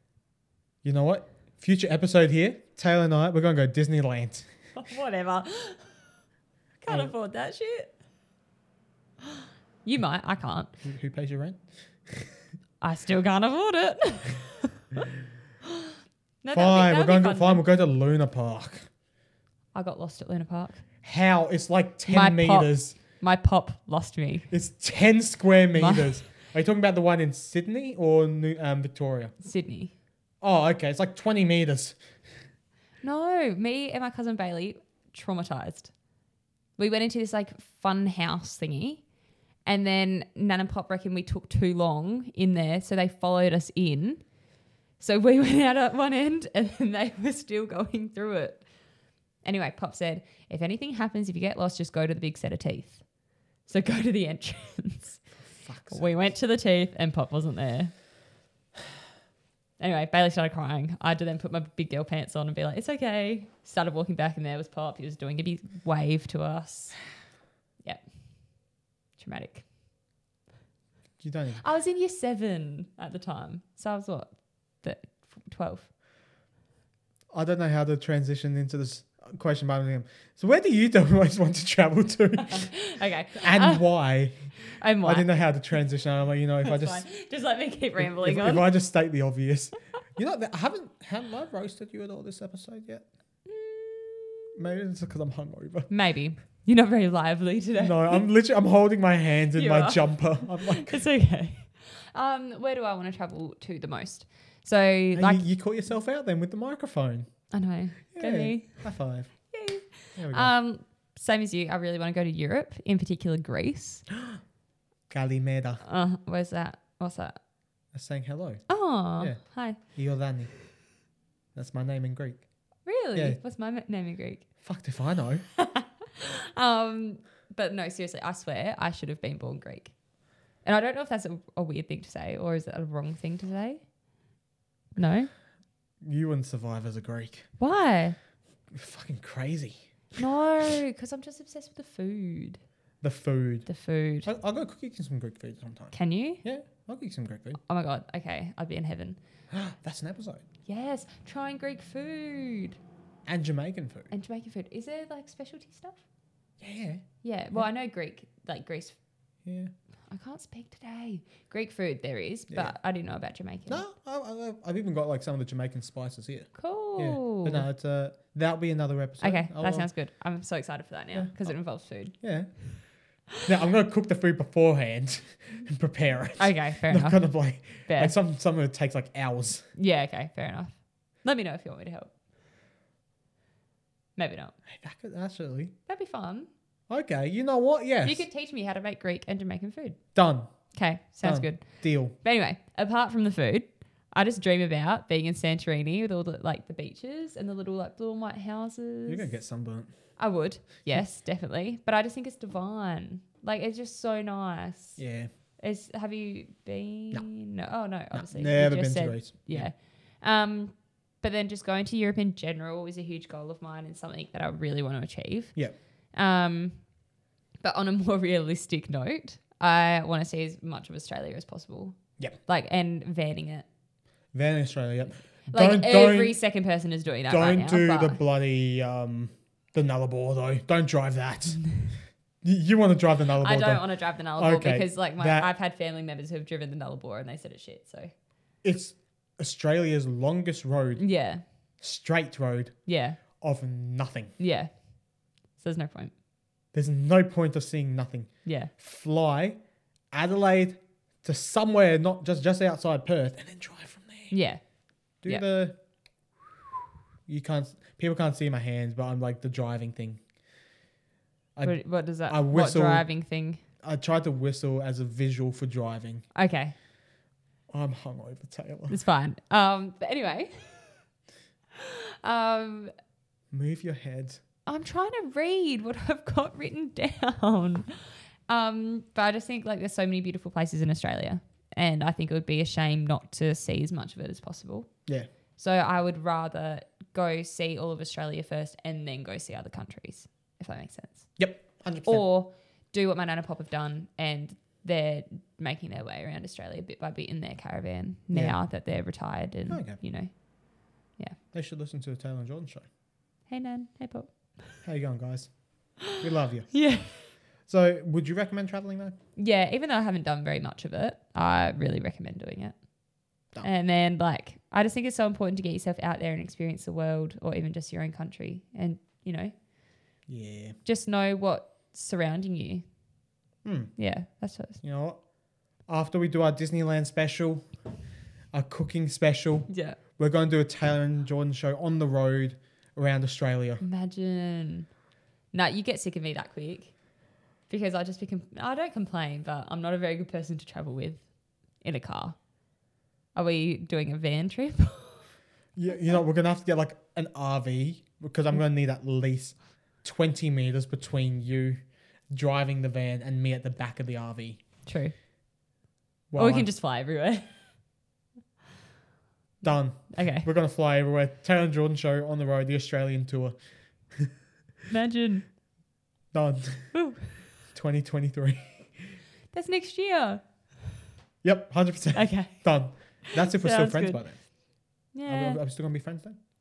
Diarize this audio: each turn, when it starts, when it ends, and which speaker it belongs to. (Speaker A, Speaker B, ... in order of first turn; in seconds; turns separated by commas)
Speaker A: 0.8-4.5, Speaker B: 4.7-6.0, Speaker B: 6.8-8.0, Speaker A: 6.9-7.1, Speaker B: 9.8-10.7, Speaker A: 10.8-12.3, Speaker B: 12.8-15.0, Speaker B: 16.4-17.6, Speaker A: 16.5-18.9, Speaker B: 19.7-20.8, Speaker A: 21.0-23.0, Speaker B: 22.1-24.5, Speaker A: 24.5-29.3, Speaker B: 25.8-26.2, Speaker B: 29.4-29.9, Speaker A: 30.4-32.0, Speaker B: 33.0-35.9, Speaker B: 36.8-39.0, Speaker B: 39.6-44.3, Speaker B: 45.0-48.7, Speaker B: 49.4-53.0, Speaker B: 53.7-55.2, Speaker A: 55.5-56.1, Speaker B: 55.9-58.0, Speaker B: 59.8-67.0, Speaker B: 69.2-69.7, Speaker A: 71.2-71.6, Speaker B: 71.6-75.9, Speaker A: 77.3-82.8, Speaker B: 82.4-83.9, Speaker A: 83.3-84.5, Speaker B: 84.8-85.4, Speaker A: 85.0-87.1, Speaker B: 86.6-88.7, Speaker A: 88.0-93.1, Speaker B: 93.5-94.5, Speaker A: 94.5-95.9, Speaker B: 95.9-98.2, Speaker A: 97.8-101.0, Speaker B: 99.5-105.5, Speaker A: 105.2-107.5, Speaker B: 107.5-108.9, Speaker A: 108.1-109.5, Speaker B: 109.5-114.0, Speaker A: 110.2-110.5, Speaker A: 115.1-115.8, Speaker B: 115.8-117.4, Speaker A: 117.9-120.5, Speaker B: 118.7-119.8, Speaker A: 121.5-122.5, Speaker B: 122.9-124.5, Speaker A: 123.1-123.4, Speaker A: 124.6-125.5, Speaker B: 125.6-129.9, Speaker B: 130.6-133.8, Speaker B: 135.0-135.3, Speaker A: 136.0-137.5, Speaker B: 137.6-138.2, Speaker A: 138.7-139.8, Speaker B: 140.2-142.6, Speaker A: 143.0-143.7, Speaker B: 143.7-144.3, Speaker A: 144.2-147.6, Speaker B: 145.9-146.4, Speaker B: 147.7-149.2, Speaker A: 149.5-150.4, Speaker B: 150.7-152.8, Speaker A: 153.3-154.1, Speaker B: 154.1-156.0, Speaker A: 156.6-157.7, Speaker B: 157.2-159.0, Speaker A: 159.4-159.7, Speaker B: 160.1-163.8, Speaker A: 162.5-162.8, Speaker A: 163.7-169.9, Speaker B: 166.5-167.7, Speaker B: 169.2-172.2, Speaker A: 171.1-172.8, Speaker A: 173.4-179.7, Speaker B: 176.4-177.3, Speaker B: 177.8-178.2, Speaker B: 179.8-182.1, Speaker B: 184.2-184.6, Speaker A: 184.7-185.7, Speaker B: 185.9-186.5, Speaker A: 186.9-188.3, Speaker B: 188.0-190.0, Speaker A: 190.2-190.5, Speaker B: 190.7-199.3, Speaker A: 191.2-192.2, Speaker A: 199.1-199.9, Speaker B: 200.2-205.0, Speaker A: 205.0-205.3, Speaker B: 205.6-215.6, Speaker A: 208.1-209.7, Speaker B: 216.1-216.8, Speaker B: 217.6-223.7, Speaker A: 224.3-226.4, Speaker B: 225.5-228.2, Speaker A: 227.3-231.8, Speaker A: 232.4-235.5, Speaker B: 233.4-238.1, Speaker A: 238.6-241.1, Speaker B: 241.0-241.4, Speaker A: 241.8-242.8, Speaker B: 242.9-243.2, Speaker A: 243.3-244.3, Speaker B: 244.4-244.7, Speaker B: 245.6-246.1, Speaker A: 246.7-249.6, Speaker B: 248.4-248.7, Speaker A: 250.1-254.3, Speaker B: 254.3-254.6, Speaker A: 255.2-255.8, Speaker A: 256.4-260.2, Speaker A: 261.6-263.1, Speaker B: 261.6-263.6, Speaker A: 263.8-266.3, Speaker B: 266.3-266.8, Speaker A: 267.7-269.0, Speaker B: 268.9-271.0, Speaker B: 271.8-272.9, Speaker A: 273.5-274.4, Speaker B: 274.7-284.9, Speaker B: 285.6-291.4, Speaker A: 291.4-292.2, Speaker B: 292.1-300.4, Speaker A: 298.3-298.6, Speaker A: 299.7-300.0, Speaker B: 301.1-301.4, Speaker A: 301.5-302.9, Speaker B: 303.5-304.6, Speaker A: 304.8-306.9, Speaker B: 306.7-307.3, Speaker A: 307.7-309.1, Speaker B: 309.4-312.9, Speaker B: 313.4-319.5, Speaker A: 320.3-320.8, Speaker B: 320.9-322.9, Speaker A: 323.6-324.0, Speaker B: 324.0-324.8, Speaker A: 324.8-325.2, Speaker A: 325.9-327.7, Speaker A: 328.5-333.8, Speaker B: 329.7-330.0, Speaker B: 333.8-334.9, Speaker B: 335.5-336.9, Speaker B: 337.7-342.4, Speaker B: 343.4-345.3, Speaker A: 345.8-351.8, Speaker A: 352.3-354.6, Speaker B: 354.9-355.1, Speaker A: 356.3-356.7, Speaker B: 356.4-357.8, Speaker A: 359.6-363.6, Speaker B: 360.1-360.5, Speaker B: 364.9-365.5, Speaker A: 366.3-366.9, Speaker B: 366.9-367.3, Speaker A: 367.7-369.2, Speaker B: 369.5-370.4, Speaker A: 371.4-374.5, Speaker B: 372.1-374.2, Speaker B: 375.1-375.6, Speaker A: 375.3-376.4